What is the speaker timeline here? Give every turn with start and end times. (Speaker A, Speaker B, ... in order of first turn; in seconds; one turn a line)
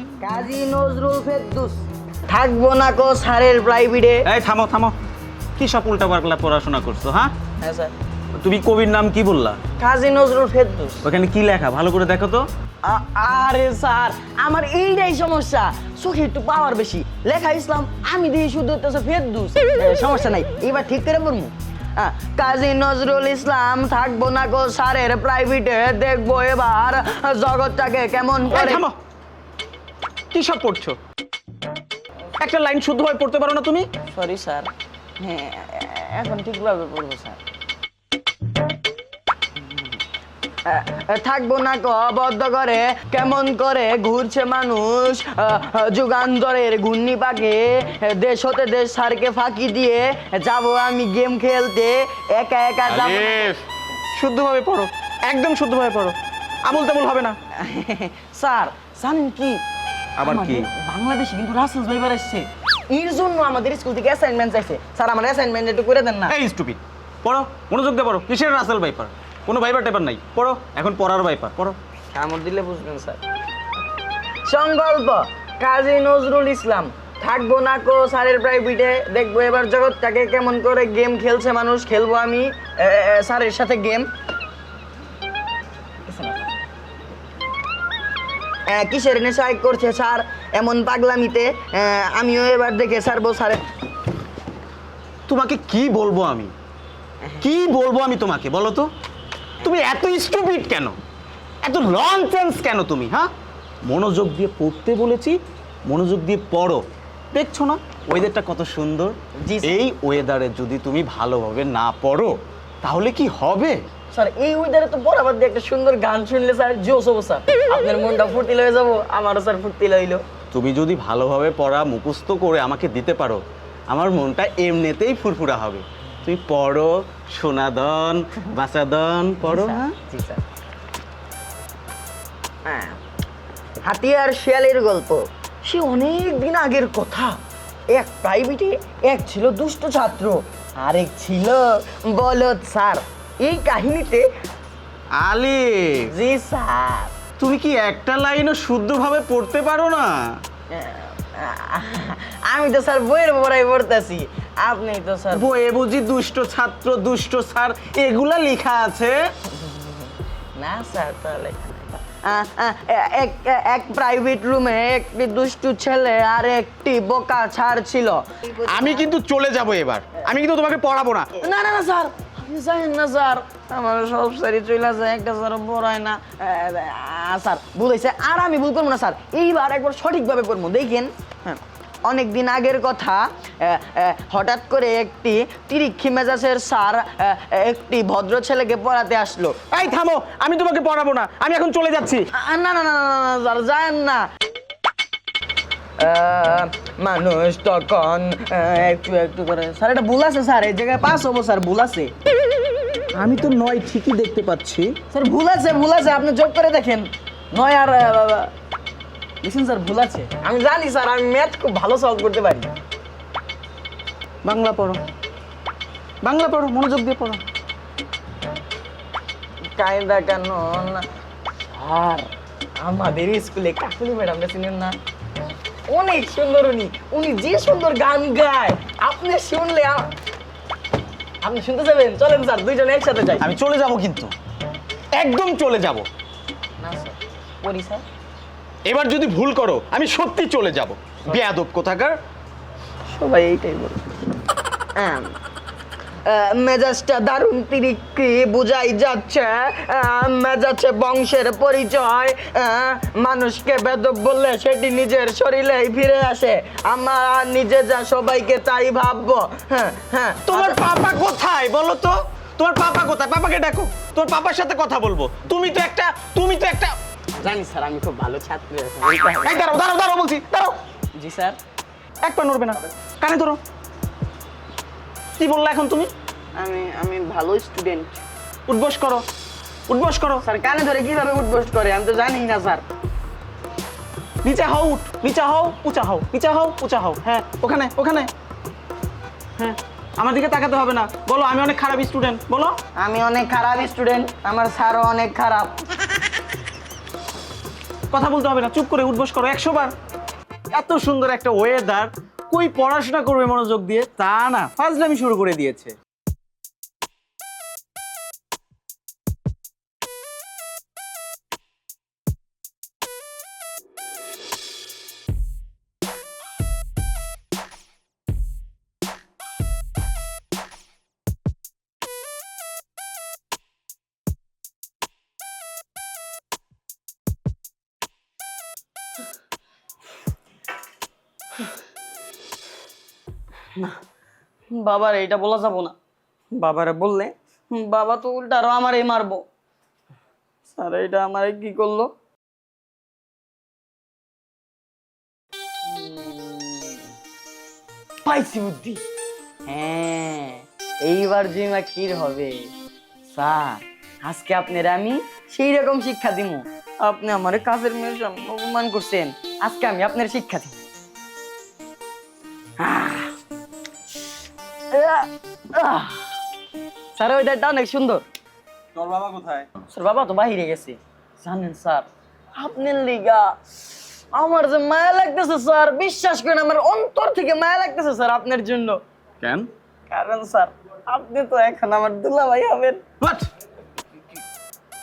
Speaker A: 0.2-4.3
Speaker B: 4.3-5.0
Speaker B: 5.6-7.3
Speaker A: 7.6-7.9
Speaker B: 8.4-9.6
Speaker A: 9.8-11.0
Speaker B: 11.0-12.5
Speaker A: 12.8-28.9
Speaker B: 28.5-29.0
Speaker B: 30.3-31.0
Speaker B: 32.4-33.9
Speaker A: 34.1-37.4
Speaker A: 40.6-53.5
Speaker B: 52.9-57.4
Speaker A: 57.6-59.6
Speaker B: 60.2-60.7
Speaker A: 60.2-66.3
Speaker B: 66.3-71.8
Speaker A: 72.1-73.2
Speaker A: 74.5-84.1
Speaker A: 86.1-86.5
Speaker A: 88.7-93.6
Speaker B: 95.3-96.5
Speaker B: 97.4-98.9
Speaker B: 99.6-101.0
Speaker B: 101.6-103.3
Speaker B: 103.9-113.8
Speaker A: 109.4-109.9
Speaker A: 114.1-120.2
Speaker B: 120.5-129.9
Speaker A: 129.4-130.4
Speaker A: 132.7-133.0
Speaker A: 133.8-137.4
Speaker A: 137.9-144.3
Speaker B: 145.2-146.1
Speaker A: 146.1-147.2
Speaker B: 147.4-150.2
Speaker A: 150.7-155.5
Speaker B: 155.3-159.2
Speaker A: 159.5-169.1
Speaker B: 168.7-171.3
Speaker A: 171.4-189.7
Speaker B: 189.7-192.3
Speaker A: 192.3-194.3
Speaker A: 196.0-202.1
Speaker B: 203.1-205.0
Speaker A: 205.1-208.5
Speaker A: 209.4-212.7
Speaker B: 214.4-215.0
Speaker B: 216.2-217.4
Speaker A: 219.8-221.1
Speaker A: 221.7-225.0
Speaker A: 225.9-230.1
Speaker A: 231.4-233.5
Speaker B: 233.4-234.3
Speaker B: 235.1-236.1
Speaker A: 236.8-238.1
Speaker B: 238.8-242.2
Speaker A: 243.1-244.1
Speaker A: 245.0-245.3
Speaker A: 246.2-260.8
Speaker B: 260.5-266.9
Speaker A: 267.4-269.7
Speaker B: 269.4-270.8
Speaker A: 271.1-271.6
Speaker B: 272.2-273.6
Speaker B: 275.4-276.1
Speaker A: 276.6-278.2
Speaker B: 278.7-279.2
Speaker B: 279.9-280.4
Speaker A: 280.4-282.8
Speaker B: 284.4-288.3
Speaker B: 289.6-292.8
Speaker A: 293.0-295.8
Speaker B: 298.1-299.9
Speaker B: 300.7-305.9
Speaker A: 334.7-335.9
Speaker A: 336.5-339.4
Speaker A: 340.7-342.1
Speaker A: 345.9-347.0
Speaker A: 348.2-349.0
Speaker A: 349.7-352.7
Speaker A: 353.3-360.8
Speaker A: 362.8-363.3
Speaker A: 364.9-366.3
Speaker A: 367.1-368.2
Speaker B: 368.9-369.7
Speaker A: 369.9-379.0
Speaker B: 379.4-379.7
Speaker A: 380.1-383.0
Speaker B: 383.2-383.5